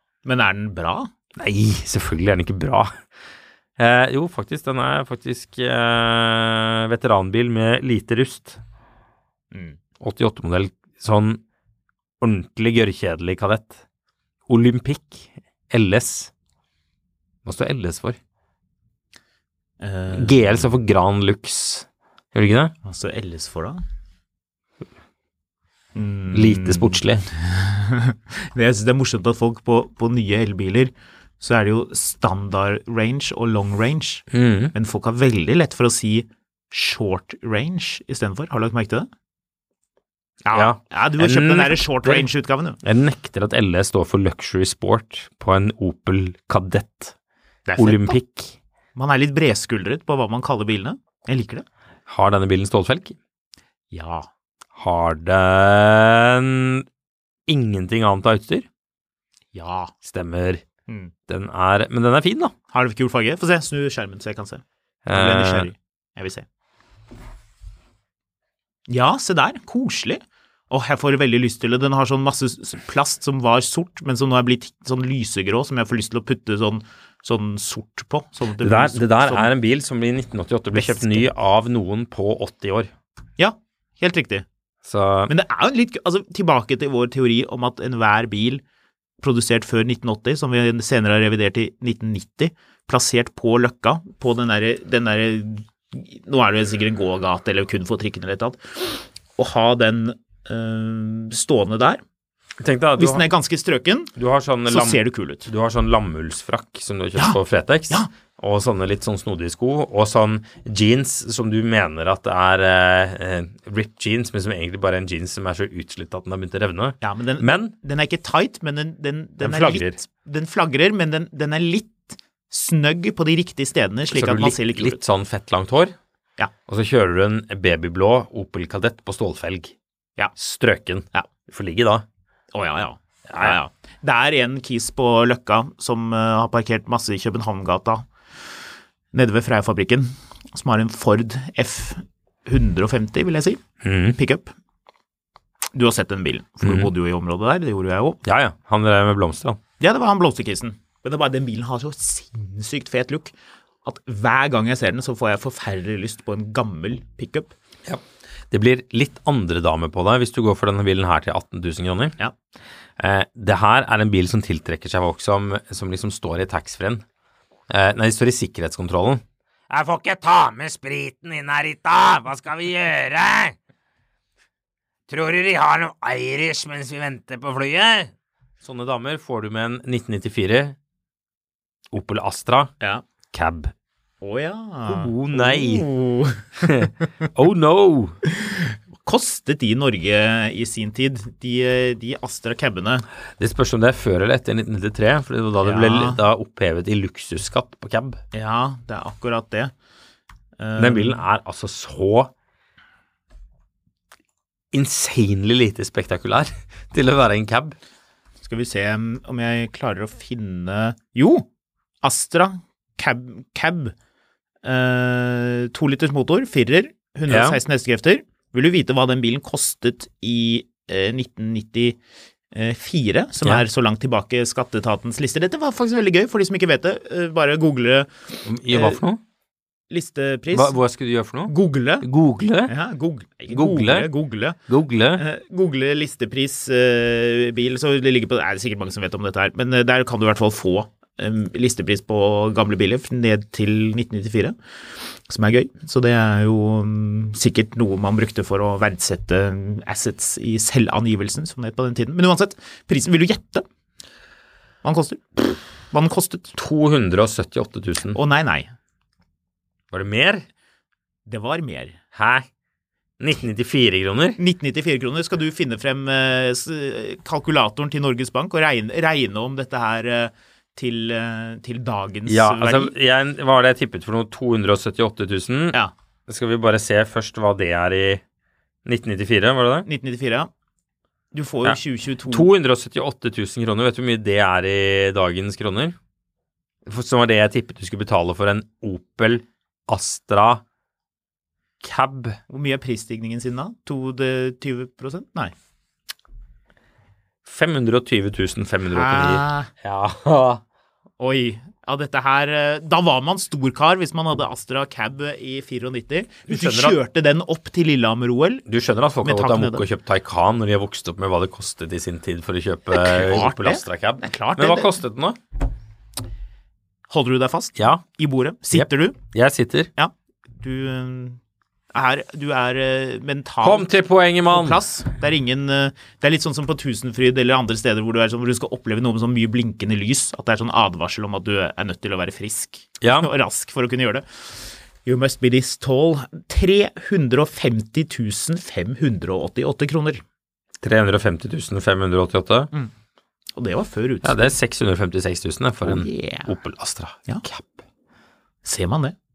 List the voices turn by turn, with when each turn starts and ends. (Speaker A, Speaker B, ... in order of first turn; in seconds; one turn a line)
Speaker A: 0.2-1.1
Speaker B: 1.4-3.0
Speaker B: 3.8-8.6
Speaker A: 9.5-9.8
Speaker B: 10.0-11.4
Speaker B: 12.2-13.8
Speaker B: 14.5-16.3
Speaker B: 17.4-18.2
Speaker A: 19.8-20.7
Speaker B: 20.1-22.7
Speaker A: 22.8-23.8
Speaker A: 25.9-39.1
Speaker B: 26.3-27.3
Speaker B: 34.3-34.7
Speaker A: 40.5-42.8
Speaker B: 40.5-42.3
Speaker B: 42.8-47.1
Speaker A: 47.7-48.2
Speaker B: 47.8-48.6
Speaker A: 49.0-51.6
Speaker B: 52.1-53.2
Speaker A: 53.9-54.3
Speaker B: 54.8-56.9
Speaker B: 57.5-58.7
Speaker A: 59.5-59.9
Speaker B: 60.0-60.6
Speaker A: 60.9-61.1
Speaker B: 61.3-62.5
Speaker A: 62.7-66.5
Speaker B: 65.0-65.7
Speaker A: 68.9-79.5
Speaker B: 78.6-82.9
Speaker A: 80.7-81.3
Speaker A: 83.4-84.5
Speaker B: 84.8-85.3
Speaker A: 85.3-88.6
Speaker A: 89.2-102.0
Speaker B: 102.6-103.3
Speaker A: 103.0-104.1
Speaker B: 104.2-117.7
Speaker A: 104.7-105.5
Speaker A: 107.2-108.1
Speaker A: 117.0-125.0
Speaker B: 119.4-120.0
Speaker B: 124.1-126.0
Speaker B: 126.7-129.8
Speaker B: 130.4-132.1
Speaker A: 132.5-138.1
Speaker B: 133.3-133.6
Speaker A: 139.1-143.6
Speaker B: 143.8-144.2
Speaker A: 144.2-144.5
Speaker A: 145.7-148.2
Speaker B: 146.6-146.9
Speaker B: 148.2-149.6
Speaker A: 149.8-157.5
Speaker B: 157.8-162.2
Speaker B: 163.0-167.0
Speaker B: 167.7-173.6
Speaker B: 175.1-178.1
Speaker B: 178.6-180.8
Speaker B: 181.9-182.7
Speaker B: 183.3-183.7
Speaker A: 184.2-186.9
Speaker B: 184.8-185.9
Speaker B: 186.6-188.2
Speaker A: 188.3-193.1
Speaker B: 193.4-198.2
Speaker A: 195.6-196.2
Speaker A: 198.3-199.7
Speaker A: 200.6-201.2
Speaker B: 200.8-202.3
Speaker B: 204.7-207.8
Speaker A: 208.4-211.4
Speaker A: 212.0-213.9
Speaker A: 214.6-222.0
Speaker B: 217.3-217.6
Speaker A: 222.5-228.1
Speaker B: 228.4-229.2
Speaker A: 228.6-229.0
Speaker A: 229.9-230.8
Speaker B: 230.5-232.7
Speaker A: 231.5-232.1
Speaker A: 232.7-234.6
Speaker B: 233.5-234.1
Speaker B: 234.7-235.2
Speaker A: 235.2-244.6
Speaker A: 245.3-253.7
Speaker A: 254.8-255.3
Speaker A: 255.9-256.5
Speaker B: 256.6-258.2
Speaker A: 258.1-258.7
Speaker B: 259.9-260.4
Speaker A: 261.3-262.0
Speaker B: 262.1-262.5
Speaker B: 263.2-264.4
Speaker A: 264.4-272.9
Speaker B: 272.3-278.2
Speaker B: 278.9-279.9
Speaker A: 279.9-280.5
Speaker A: 281.3-282.5
Speaker B: 281.6-286.0
Speaker B: 286.9-290.6
Speaker B: 291.8-292.4
Speaker A: 292.5-295.5
Speaker B: 297.4-300.6
Speaker A: 298.9-299.7
Speaker A: 301.2-308.6
Speaker B: 306.5-307.0
Speaker B: 308.7-315.4
Speaker A: 309.2-309.9
Speaker A: 312.9-314.9
Speaker A: 317.1-319.2
Speaker B: 317.8-318.0
Speaker B: 318.7-319.9
Speaker A: 320.0-321.4
Speaker A: 321.9-340.2
Speaker B: 323.6-324.8
Speaker B: 333.0-333.3
Speaker B: 340.8-342.7
Speaker A: 343.6-344.5
Speaker B: 344.2-347.9
Speaker A: 345.8-346.5
Speaker A: 348.6-349.1